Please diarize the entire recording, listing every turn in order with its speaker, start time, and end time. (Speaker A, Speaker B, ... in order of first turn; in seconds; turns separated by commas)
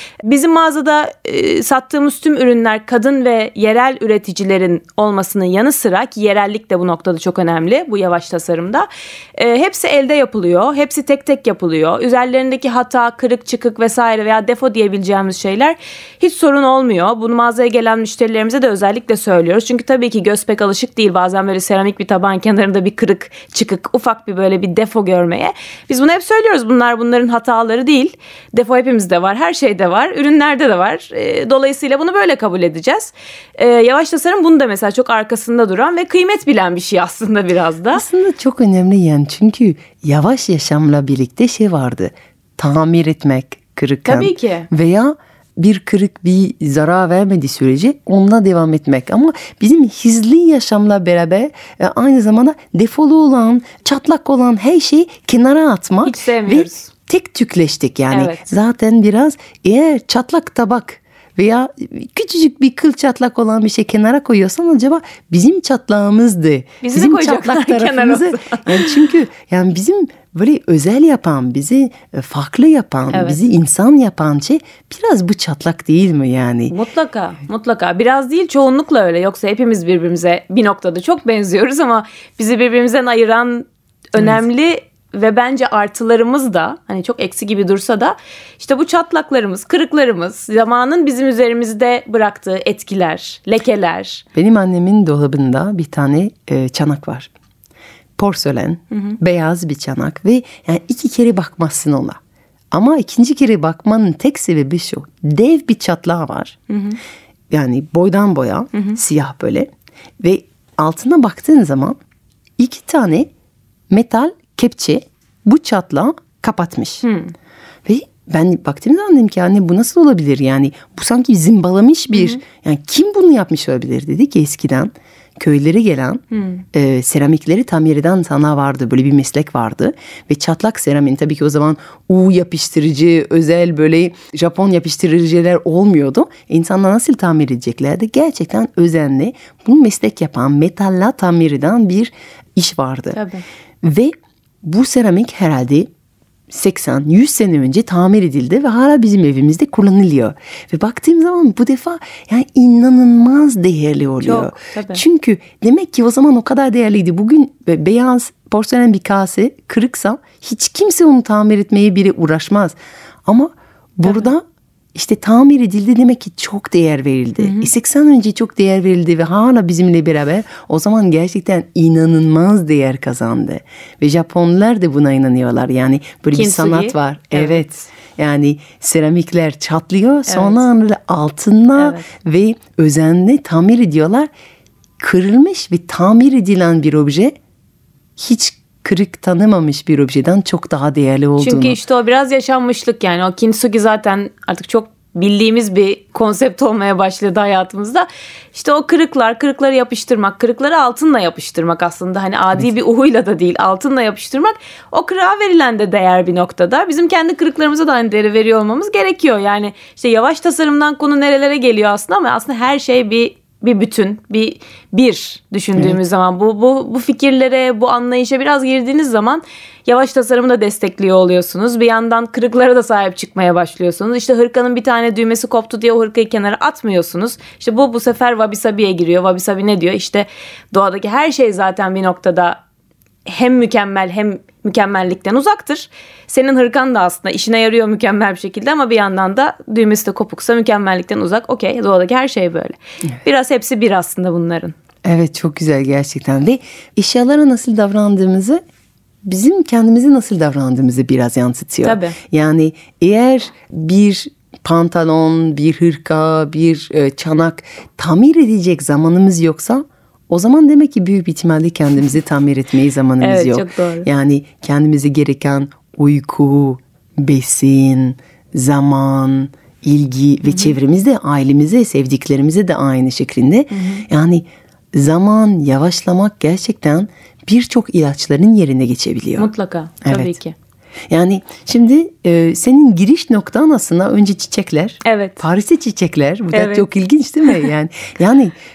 Speaker A: 0.2-38.0, Speaker B: 37.9-76.8, Speaker A: 56.2-56.5, Speaker A: 66.8-68.1, Speaker A: 76.7-83.7, Speaker B: 84.2-84.4, Speaker A: 84.3-94.2, Speaker B: 94.3-97.3, Speaker B: 98.2-102.2, Speaker B: 102.7-106.6, Speaker B: 107.5-112.0, Speaker B: 112.6-113.3, Speaker B: 113.9-117.1, Speaker B: 117.9-143.2, Speaker A: 143.2-143.4, Speaker B: 143.8-145.9, Speaker B: 146.5-164.4, Speaker B: 164.9-184.3, Speaker B: 185.0-187.3, Speaker B: 188.2-191.8, Speaker A: 191.7-232.6, Speaker B: 215.7-216.0, Speaker A: 233.3-244.7, Speaker B: 245.0-248.6, Speaker B: 249.2-279.5, Speaker A: 251.9-252.1, Speaker A: 263.3-264.0, Speaker A: 279.5-280.5, Speaker B: 280.0-280.4, Speaker B: 281.1-288.6, Speaker A: 285.0-285.4